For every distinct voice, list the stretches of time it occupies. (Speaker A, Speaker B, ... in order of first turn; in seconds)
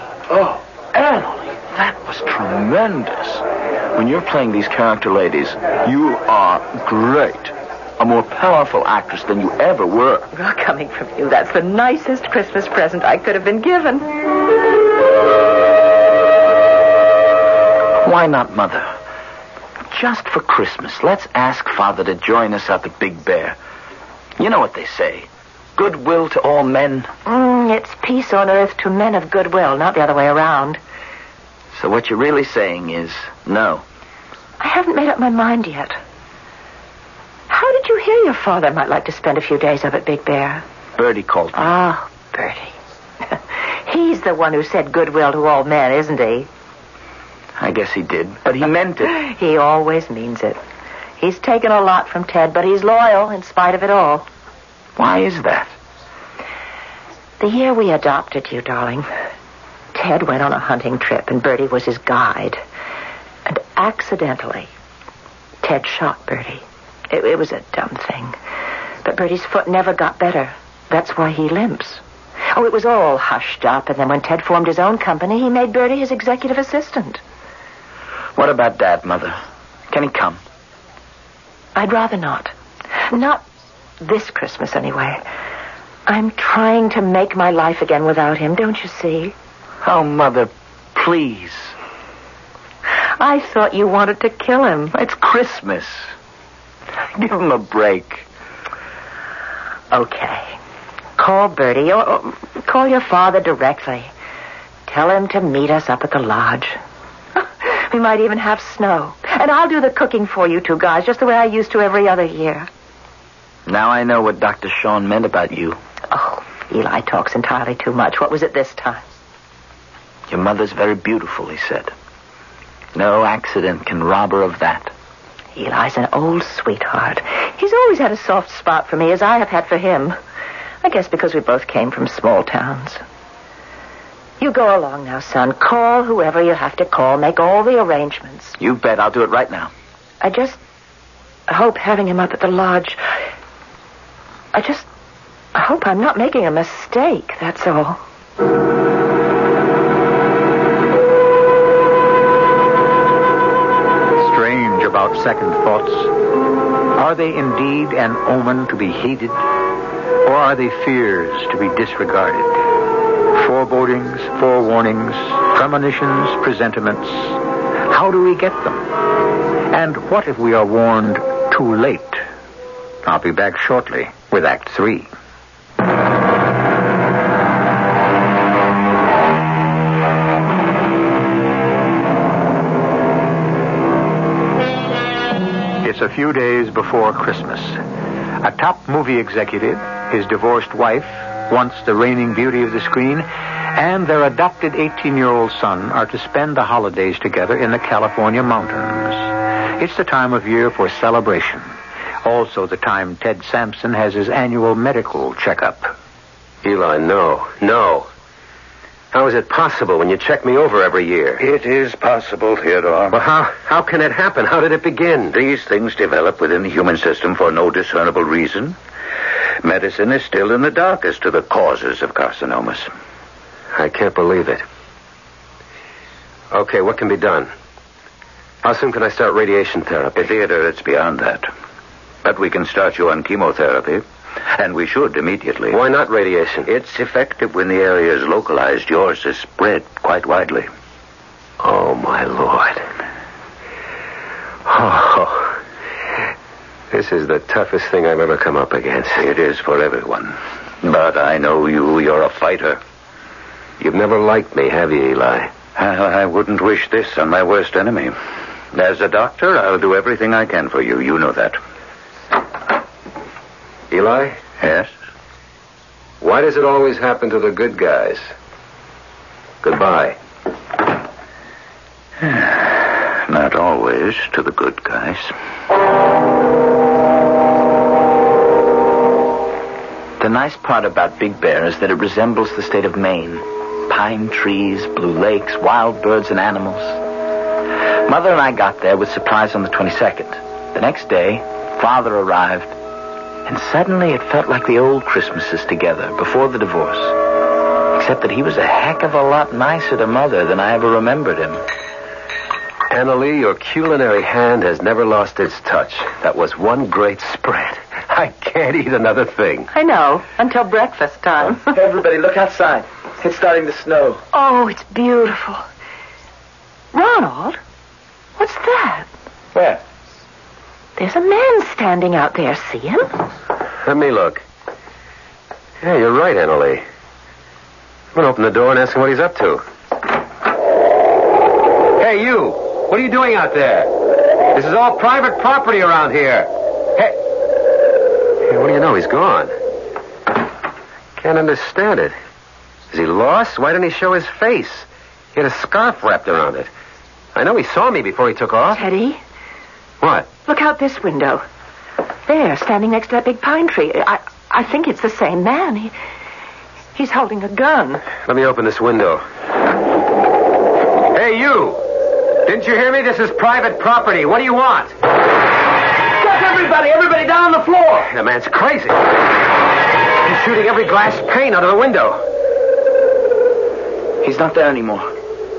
Speaker A: 0.3-10.3, 18.0-18.9, 19.9-23.6, 24.4-27.1, 31.7-33.9, 41.0-41.7, 47.6-49.1, 55.0-55.7, 78.3-79.4, 79.9-80.4, 89.8-91.7, 94.9-96.1, 97.2-98.2, 113.7-115.8, 120.3-121.9, 122.9-124.9, 138.6-139.7, 280.2-287.0, 288.0-292.7, 293.4-297.2, 297.9-301.6, 311.6-314.2, 319.5-319.8, 366.2-368.0, 374.2-375.1
Speaker B: 10.3-14.1, 27.2-30.8, 34.6-36.0, 37.5-40.6, 41.5-42.7, 43.3-46.5, 49.0-50.6, 51.2-54.3, 57.4-59.1, 59.9-62.6, 63.5-64.7, 65.6-68.4, 69.0-72.0, 72.5-77.2, 81.7-82.5, 83.1-83.4, 84.0-85.2, 86.1-89.3, 93.2-94.9, 99.9-100.6, 101.2-104.1, 104.9-106.8, 107.4-112.7, 116.1-119.0, 125.6-130.2, 130.8-133.0, 134.4-138.6, 140.2-140.6, 141.5-143.0, 144.5-144.9, 145.6-148.0, 309.7-311.7, 314.3-315.6, 316.9-317.6, 318.4-319.1, 321.0-323.1, 348.7-349.2, 350.4-351.4, 352.2-355.9, 356.9-358.1
Speaker C: 154.2-156.1, 156.9-159.4, 160.2-162.6, 163.3-168.9, 169.7-172.2, 173.1-175.1, 185.8-187.8, 188.4-205.9
Speaker D: 206.6-208.1, 209.1-211.4, 213.1-215.3, 223.7-224.6, 226.5-227.5, 228.6-230.3, 235.7-236.7, 241.6-242.8, 244.7-245.6, 246.9-249.2, 253.8-255.5, 263.9-264.4, 266.2-268.3, 269.6-270.2, 302.9-309.7, 323.9-324.4, 325.8-326.8, 328.1-329.6, 331.9-337.2, 338.4-339.5, 341.2-342.1, 342.9-346.7, 347.4-348.8, 350.0-350.3, 358.2-359.2, 361.1-361.8, 362.4-365.0, 367.9-369.1, 370.2-372.2
Speaker E: 211.4-213.2, 215.3-218.8, 219.6-222.9, 230.2-231.5, 232.2-235.8, 236.7-240.7, 249.2-252.8, 255.8-258.1, 258.7-261.6, 264.6-264.9, 272.2-275.3